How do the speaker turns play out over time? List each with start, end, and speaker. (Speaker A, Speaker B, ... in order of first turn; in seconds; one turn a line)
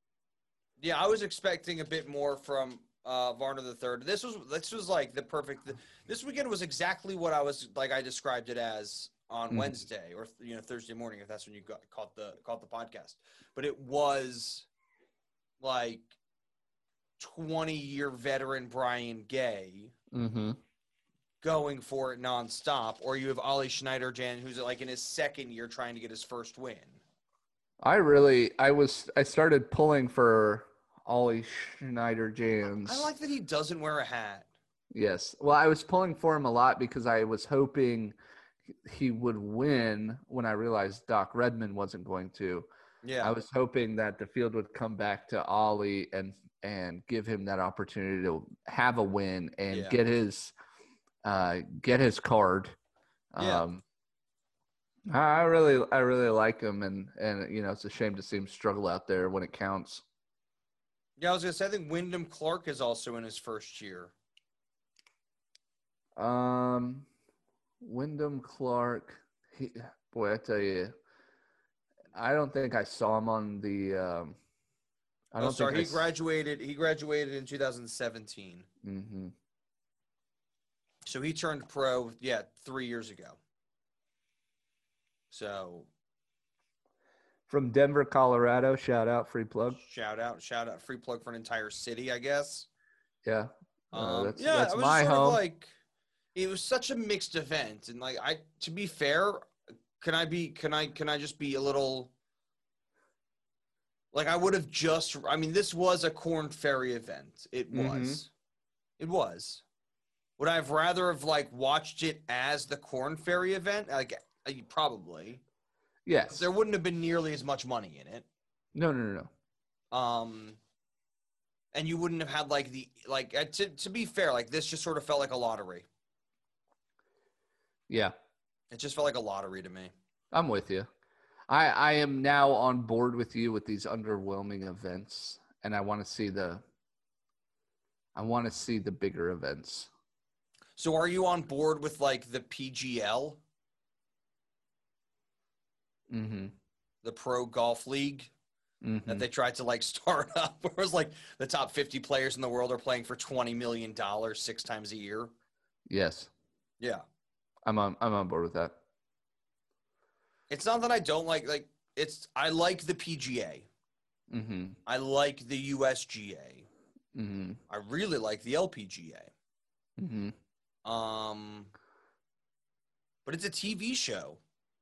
Speaker A: 0.8-14.7
Speaker B: 9.5-9.8
Speaker A: 15.6-16.1
Speaker A: 17.2-19.9
Speaker B: 20.1-20.6
Speaker A: 21.4-27.0
Speaker B: 27.8-33.1
Speaker A: 32.7-34.5
Speaker B: 34.9-38.1
Speaker B: 38.8-42.7
Speaker A: 43.0-43.3
Speaker B: 43.2-50.5
Speaker A: 49.7-50.0
Speaker B: 51.2-52.8
Speaker B: 53.3-53.8
Speaker A: 53.4-53.6
Speaker B: 55.1-60.0
Speaker A: 61.2-64.1
Speaker B: 66.2-67.1
Speaker B: 67.8-70.9
Speaker B: 72.1-74.3
Speaker B: 75.3-76.0
Speaker A: 75.4-78.7
Speaker B: 78.8-79.3
Speaker A: 81.0-83.4
Speaker A: 85.3-85.9
Speaker B: 87.5-89.8
Speaker A: 89.7-92.7
Speaker B: 93.2-95.4
Speaker A: 93.9-95.7
Speaker A: 96.3-102.1
Speaker A: 104.1-108.3
Speaker B: 107.7-108.2
Speaker A: 109.0-109.6
Speaker A: 110.4-115.4
Speaker B: 116.0-116.5
Speaker A: 116.3-118.2
Speaker B: 118.7-119.3
Speaker A: 119.9-120.6
Speaker A: 121.7-125.8
Speaker B: 127.9-128.1
Speaker A: 128.7-129.9
Speaker B: 130.3-130.9
Speaker B: 131.5-136.6
Speaker B: 138.1-139.9
Speaker A: 140.8-143.4
Speaker B: 146.1-146.5
Speaker A: 147.0-148.3
Speaker B: 148.8-149.2
Speaker A: 149.1-155.3
Speaker B: 155.9-156.3
Speaker B: 157.7-158.8
Speaker A: 160.5-163.7
Speaker B: 164.3-164.8
Speaker A: 164.8-166.7
Speaker B: 167.1-167.6
Speaker A: 167.7-169.3
Speaker B: 170.0-170.3
Speaker A: 170.8-171.7
Speaker A: 173.2-174.4